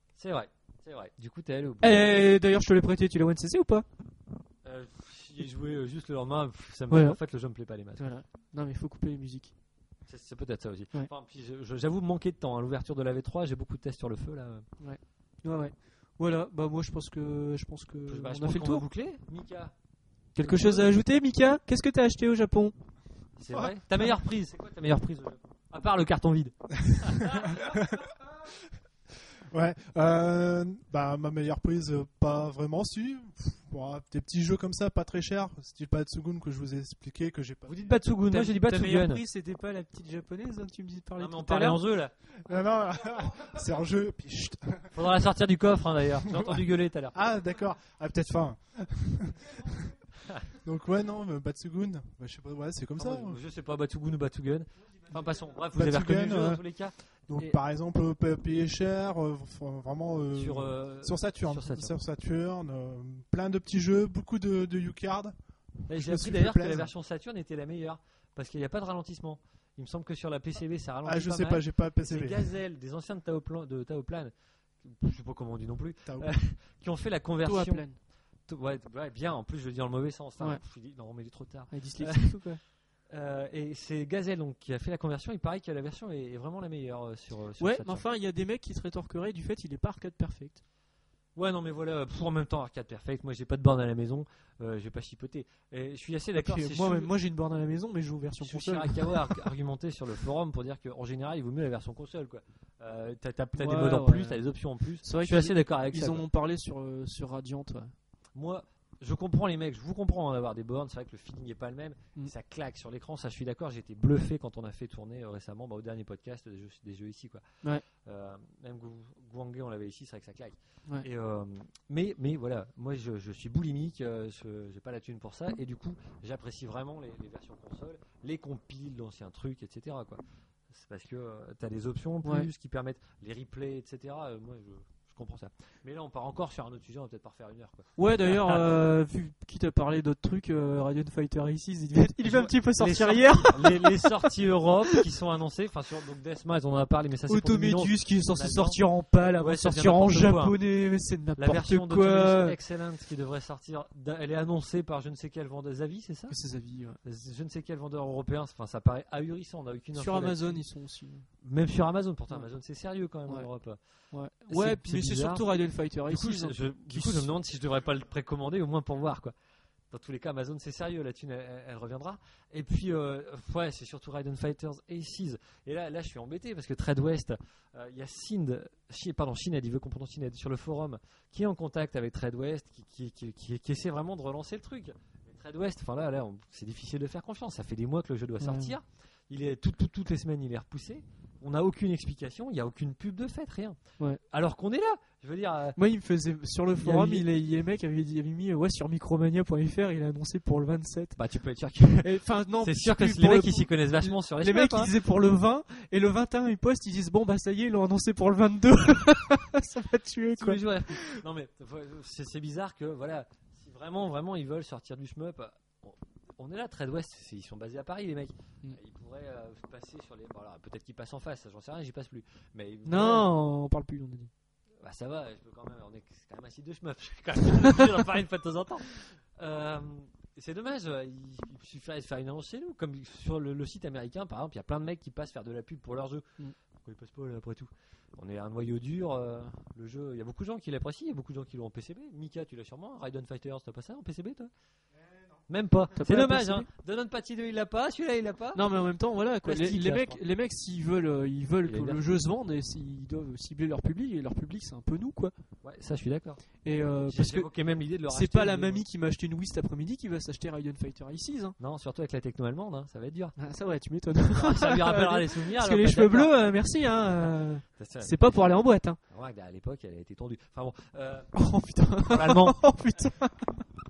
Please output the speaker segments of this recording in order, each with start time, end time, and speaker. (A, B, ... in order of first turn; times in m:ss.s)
0:00.2-0:02.1 A
0:01.8-0:03.9 B
0:04.6-0:08.1 A
0:06.9-0:07.2 B
0:08.0-0:09.5 B
0:10.1-0:14.7 A
0:14.8-0:18.9 B
0:18.1-0:19.7 A
0:20.4-0:22.7 B
0:20.4-0:21.0 A
0:23.4-0:28.0 A
0:26.9-0:28.0 C
0:29.5-0:37.9 C
0:37.7-0:39.2 A
0:38.3-0:41.8 B
0:41.2-0:42.1 A
0:42.4-0:45.0 C
0:44.9-0:47.2 A
0:46.2-0:46.6 C
0:47.1-0:50.0 C
0:50.5-0:53.4 C
0:53.0-0:57.6 A
0:55.7-0:56.6 C
0:57.3-1:05.3 C
1:00.3-1:01.9 A
1:05.9-1:17.8 A
1:05.9-1:06.9 C
1:11.0-1:12.5 C
1:16.1-1:16.3 C
1:17.4-1:18.0 B
1:18.5-1:22.4 A
1:21.7-1:22.6 B
1:23.1-1:28.0 A
1:27.6-1:30.6 B
1:31.4-1:37.1 A
1:36.4-1:39.4 B
1:38.4-1:46.2 A
1:43.6-1:44.4 B
1:45.0-1:47.9 B
1:48.4-1:57.4 A
1:58.0-2:18.7 A
2:12.2-2:12.5 B
2:18.0-2:24.3 B
2:22.2-2:28.8 A
2:27.3-2:32.6 B
2:29.4-2:30.6 A
2:31.4-2:36.4 A
2:36.3-2:37.0 B
2:37.0-2:40.6 A
2:39.9-2:41.3 B
2:41.4-2:43.8 A
2:44.1-2:47.3 B
2:44.5-2:45.4 A
2:46.1-2:49.3 A
2:49.9-3:13.8 A
3:08.4-3:08.8 B
3:14.3-3:15.8 A
3:15.8-3:21.2 B
3:16.8-3:17.3 A
3:21.2-3:24.9 A
3:22.0-3:31.2 B
3:30.4-3:43.3 A
3:42.9-3:44.3 B
3:44.8-3:56.3 A
3:56.8-4:04.5 A
4:05.5-4:08.6 A
4:06.0-4:06.7 B
4:08.6-4:15.3 B
4:09.4-4:10.2 A
4:11.6-4:12.0 A
4:15.6-4:16.4 A
4:16.6-4:17.5 B
4:17.0-4:18.8 A
4:18.1-4:21.6 B
4:21.6-4:23.4 A
4:23.4-4:29.0 B
4:24.3-4:26.3 A
4:27.8-4:28.5 A
4:29.1-4:31.3 A
4:31.4-4:33.6 B
4:32.0-4:32.6 A